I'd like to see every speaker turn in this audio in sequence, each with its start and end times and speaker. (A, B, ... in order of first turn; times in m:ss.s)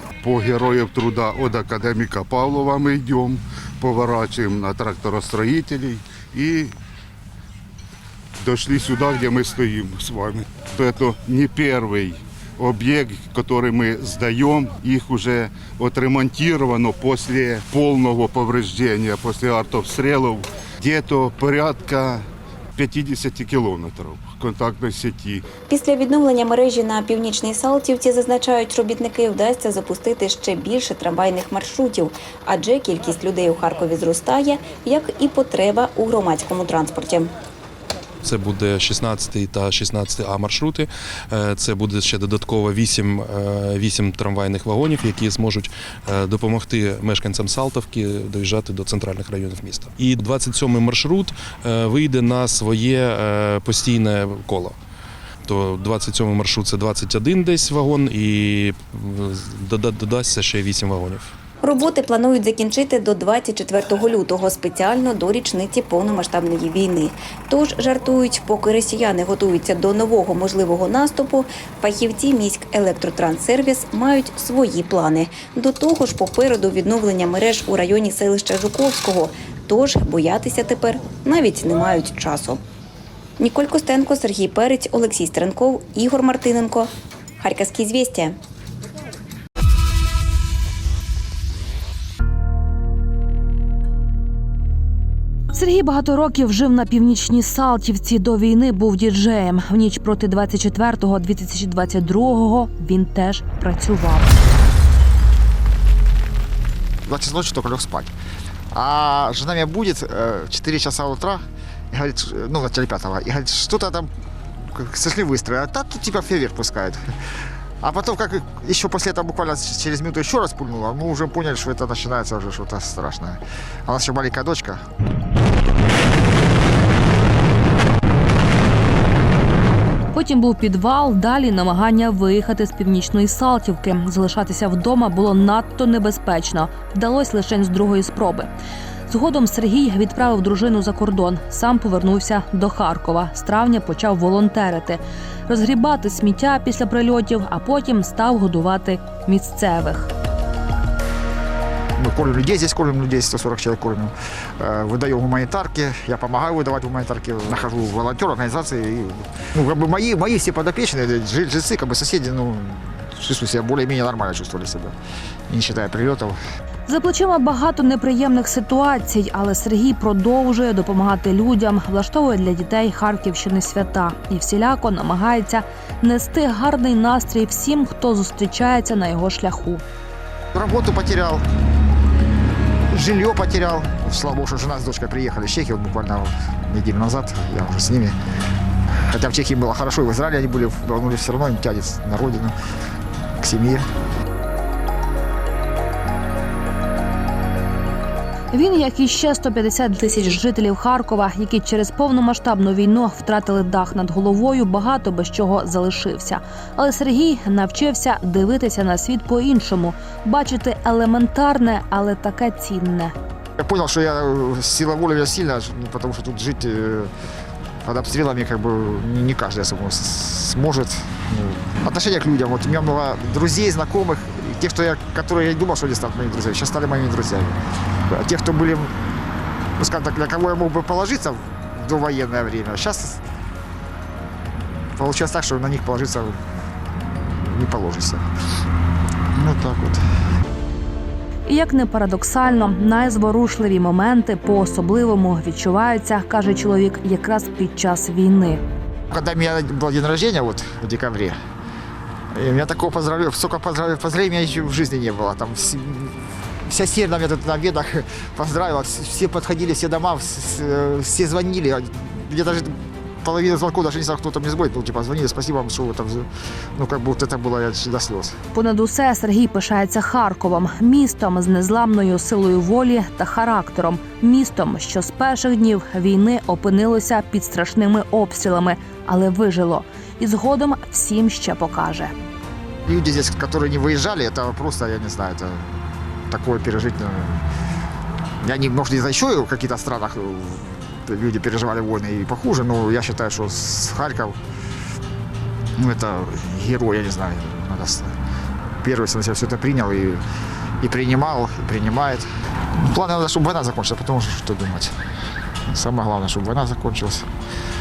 0:00.2-0:06.8 A
0:08.4-0:25.4 A
0:25.7-0:37.3 B
0:38.2-0:54.8 C
0:55.4-1:01.4 C
1:01.6-1:22.6 B
1:23.4-1:28.4 B
1:35.5-1:44.3 D
1:47.1-1:48.1 E
1:48.7-1:54.1 E
1:54.7-1:57.0 E
1:57.8-2:04.8 E
2:10.1-2:18.5 D
2:19.1-2:30.1 D
2:32.0-2:44.9 E
2:45.5-2:46.4 E
2:46.9-2:59.8 D
3:00.5-3:01.4 E
3:02.9-3:08.2 E
3:09.1-3:12.6 E
3:13.4-3:13.8 E
3:18.5-3:33.1 D
3:33.6-3:37.1 E
3:37.8-3:47.6 E
3:48.1-3:48.9 E
3:49.8-3:53.2 E
3:55.0-3:56.4 E
3:57.4-3:58.2 E
3:59.4-4:00.0 E
4:01.5-4:08.6 D
4:09.1-4:11.4 E
4:12.3-4:28.4 E
4:28.5-4:42.1 D
4:42.9-4:45.7 E
4:46.3-4:47.4 E
4:48.4-4:54.4 E
4:55.8-4:58.1 E
4:58.8-5:00.2 E
5:00.8-5:02.2 E
5:02.8-5:05.0 E
5:05.7-5:07.3 E